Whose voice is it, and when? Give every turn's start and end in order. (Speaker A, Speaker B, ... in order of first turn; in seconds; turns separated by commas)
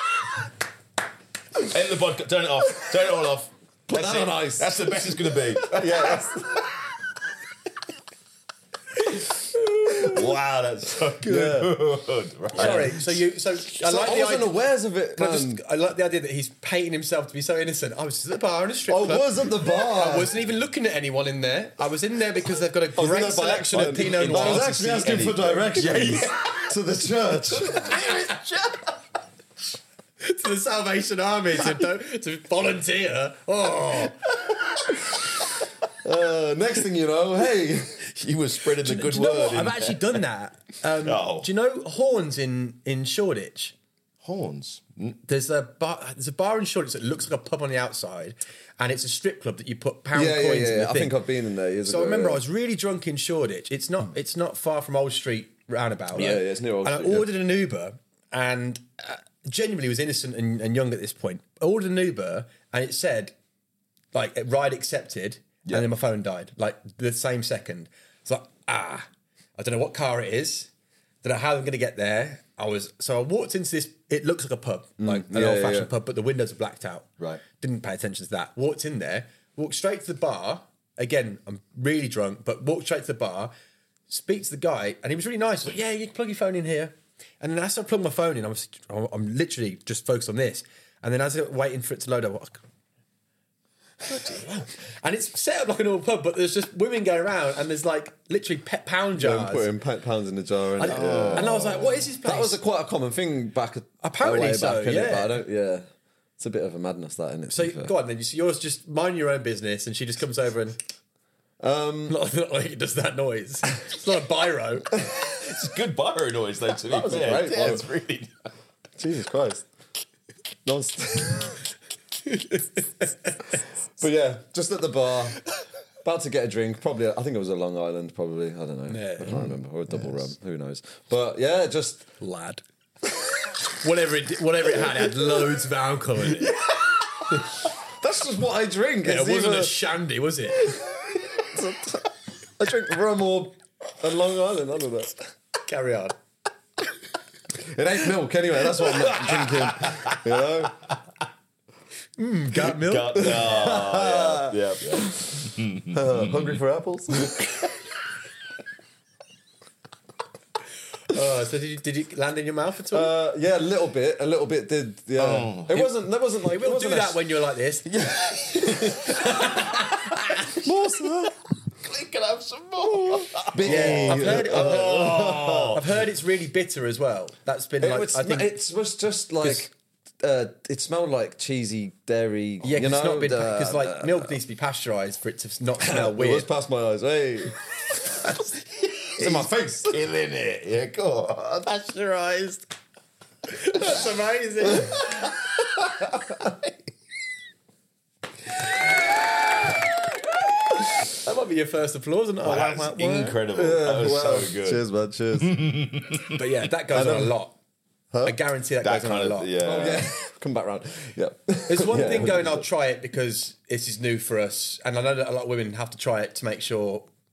Speaker A: 1.6-6.3, Speaker B: 3.9-6.7, Speaker A: 9.9-13.1, Speaker B: 11.2-11.7, Speaker C: 12.6-14.6, Speaker B: 12.6-13.0, Speaker B: 13.8-15.6, Speaker C: 15.2-25.4, Speaker B: 18.9-20.3, Speaker B: 23.0-28.0, Speaker A: 23.7-26.7, Speaker A: 27.5-28.9, Speaker C: 27.9-28.3, Speaker C: 30.2-34.2, Speaker B: 36.0-38.0, Speaker A: 38.0-40.2, Speaker C: 38.8-43.7, Speaker A: 41.0-41.5, Speaker A: 44.2-45.2, Speaker C: 45.3-51.2, Speaker B: 50.1-52.4, Speaker C: 51.9-63.3, Speaker B: 56.1-57.3, Speaker C: 64.1-70.7, Speaker C: 71.2-83.5, Speaker B: 75.0-75.9, Speaker C: 84.1-92.6, Speaker C: 94.0-99.7, Speaker B: 99.2-105.9, Speaker C: 100.8-102.6, Speaker A: 100.8-102.0, Speaker C: 104.0-105.4, Speaker B: 106.4-107.9, Speaker C: 107.5-110.8, Speaker B: 111.6-112.2, Speaker C: 112.1-114.9, Speaker A: 115.1-118.3, Speaker B: 116.9-117.9, Speaker B: 119.0-119.7, Speaker B: 120.7-121.6, Speaker C: 122.3-123.1, Speaker B: 124.0-125.4, Speaker B: 126.0-132.1, Speaker C: 128.9-129.6, Speaker C: 132.2-132.6, Speaker C: 133.8-136.6, Speaker B: 137.9-139.8, Speaker C: 139.0-140.8, Speaker B: 141.4-145.3, Speaker C: 145.7-146.2, Speaker B: 147.6-150.8, Speaker A: 149.1-150.2, Speaker C: 152.2-153.4, Speaker A: 152.7-156.6, Speaker B: 153.2-155.3, Speaker B: 155.9-157.5, Speaker C: 161.1-163.1, Speaker B: 162.9-167.2, Speaker A: 165.2-165.8, Speaker C: 166.4-170.6, Speaker A: 167.9-170.6, Speaker B: 170.6-171.3, Speaker A: 171.8-175.8, Speaker B: 173.5-175.8, Speaker C: 173.6-178.5, Speaker B: 177.8-184.4, Speaker C: 182.6-186.5, Speaker B: 185.8-187.6, Speaker A: 188.8-192.6, Speaker B: 189.2-190.0, Speaker C: 193.5-195.1, Speaker A: 195.0-195.3, Speaker C: 201.1-203.4, Speaker A: 202.4-206.4, Speaker B: 203.5-205.6, Speaker C: 206.3-207.6, Speaker B: 206.9-207.3, Speaker B: 208.1-208.4, Speaker C: 208.2-209.5, Speaker A: 208.8-210.2, Speaker B: 209.6-212.6, Speaker C: 211.7-217.1